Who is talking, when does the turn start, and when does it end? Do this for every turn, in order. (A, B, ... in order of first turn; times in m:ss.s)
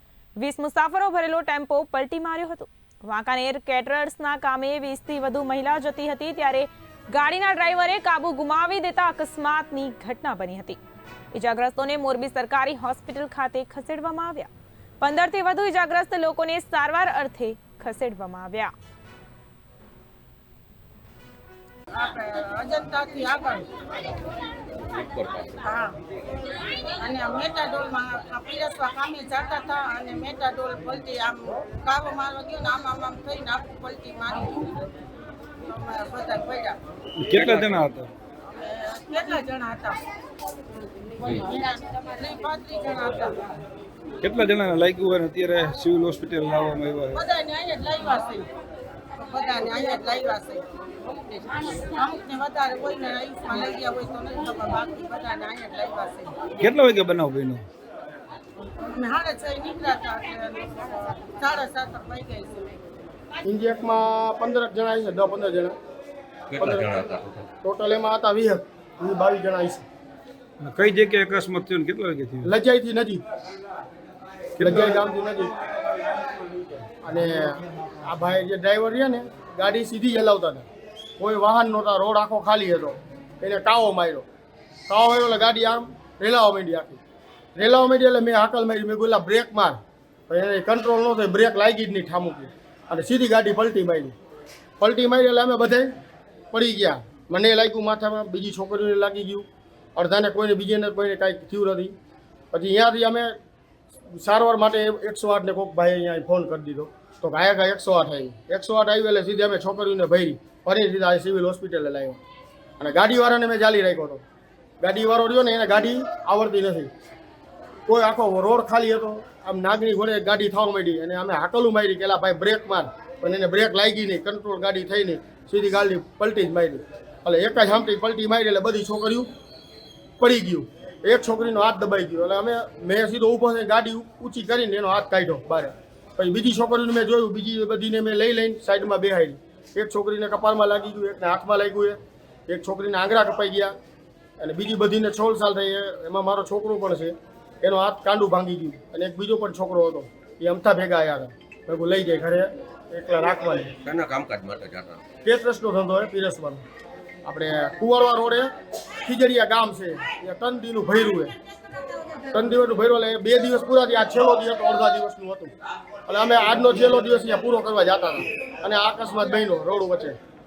0:00.4-0:10.8 A
0:11.3-0:14.5 A
0:15.0-0:18.7 A
0:21.9-0:23.7 B
0:24.8-0:25.6 C
0:25.6-0:26.0 B
0:27.0-0:34.9 B
0:35.6-0:36.8 B
0:37.2-0:38.1 D
0:37.4-0:37.8 C
0:38.6-0:40.0 B
0:41.2-0:43.4 B
0:44.2-0:47.2 D
0:47.1-0:48.5 B
0:49.2-0:50.6 B
0:51.4-0:56.4 B
0:56.6-0:57.7 D
0:58.9-1:02.7 B
1:03.4-1:05.8 E
1:06.5-1:07.5 C
1:06.6-1:06.9 E
1:07.6-1:09.8 E
1:10.6-1:12.5 D
1:12.4-1:13.2 E
1:14.6-1:14.9 D
1:14.6-1:15.5 E
1:17.0-1:20.7 E
1:21.2-1:24.3 E
1:24.9-1:27.0 E
1:27.6-1:34.2 E
1:34.8-1:36.0 E
1:36.5-1:42.0 E
1:42.5-1:43.4 E
1:44.1-1:52.2 E
1:52.8-1:54.2 E
1:54.8-1:56.9 E
1:57.9-2:09.3 E
2:10.2-2:23.8 E
2:24.4-2:33.8 E
2:33.8-2:35.0 C
2:35.2-2:36.6 E
2:37.2-2:38.5 E
2:39.0-2:41.3 E
2:42.3-2:45.5 E
2:46.1-2:50.2 E